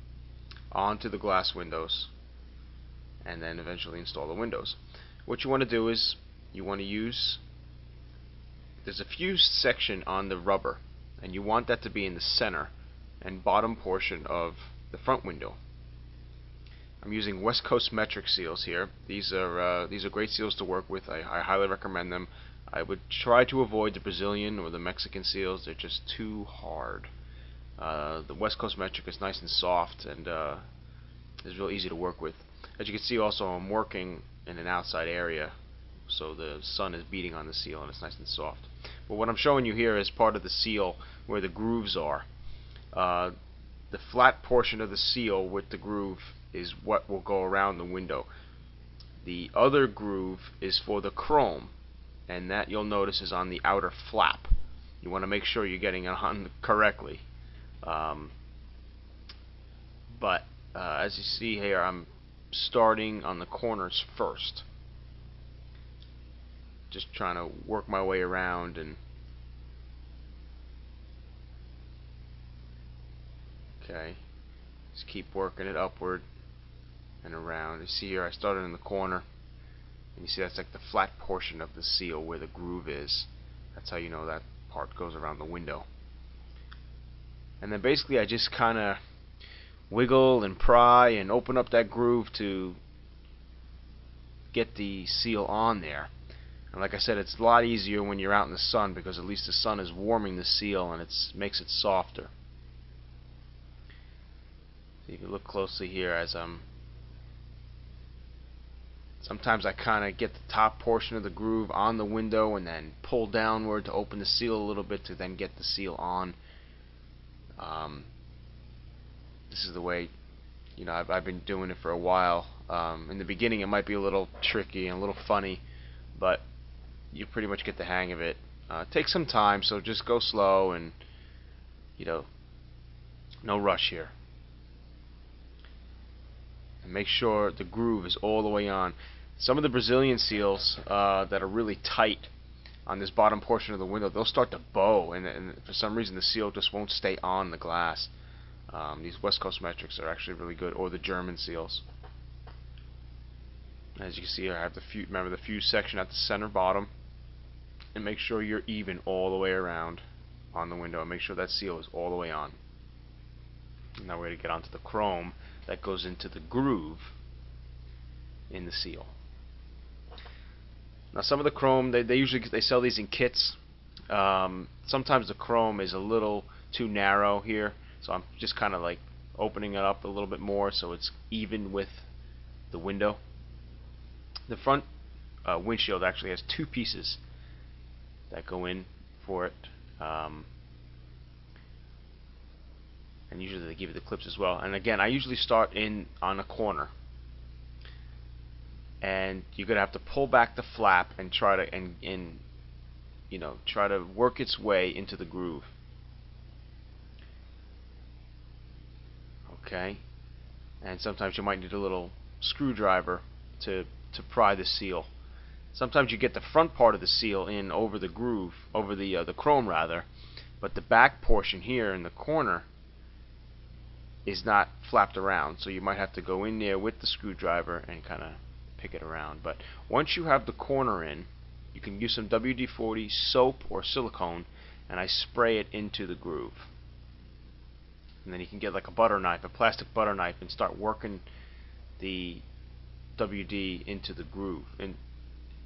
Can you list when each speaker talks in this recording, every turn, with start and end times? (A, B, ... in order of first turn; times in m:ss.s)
0:00.7-0:02.1 A
0:03.2-0:07.4 A
0:08.8-0:15.6 A
0:17.0-0:27.1 A
0:27.8-0:30.6 A
0:31.4-0:35.5 A
0:36.1-0:42.3 A
0:42.9-0:43.3 A
0:43.9-0:48.3 A
0:49.2-0:51.7 A
0:52.3-0:57.2 A
0:57.8-0:58.3 A
1:00.1-1:04.6 A
1:06.9-1:09.0 A
1:13.8-1:14.2 A
1:14.9-1:16.2 A
1:17.2-1:19.2 A
1:20.2-1:25.9 A
1:27.6-1:29.0 A
1:29.9-1:32.8 A
1:34.5-1:36.1 A
1:36.7-1:42.3 A
1:45.0-1:46.6 A
1:49.2-1:56.4 A
1:57.6-1:58.1 A
1:59.5-2:00.1 A
2:00.8-2:05.6 A
2:06.2-2:06.4 A
2:07.1-2:10.9 A
2:12.0-2:12.3 A
2:13.4-2:14.1 A
2:16.8-2:22.3 A
2:22.8-2:28.1 A
2:28.7-2:31.8 A
2:34.0-2:36.9 A
2:37.9-2:42.6 A
2:44.0-2:47.1 A
2:48.5-2:49.1 A
2:51.1-2:53.6 A
2:54.1-3:02.1 A
3:02.7-3:03.2 A
3:04.5-3:04.8 A
3:05.4-3:07.2 A
3:08.3-3:10.5 A
3:13.3-3:16.9 A
3:19.0-3:22.4 A
3:23.3-3:25.7 A
3:29.5-3:30.0 A
3:30.8-3:35.1 A
3:35.7-3:40.1 A
3:40.6-3:42.7 A
3:44.2-3:56.7 A
3:58.2-4:01.2 A
4:02.0-4:02.4 A
4:03.2-4:05.0 A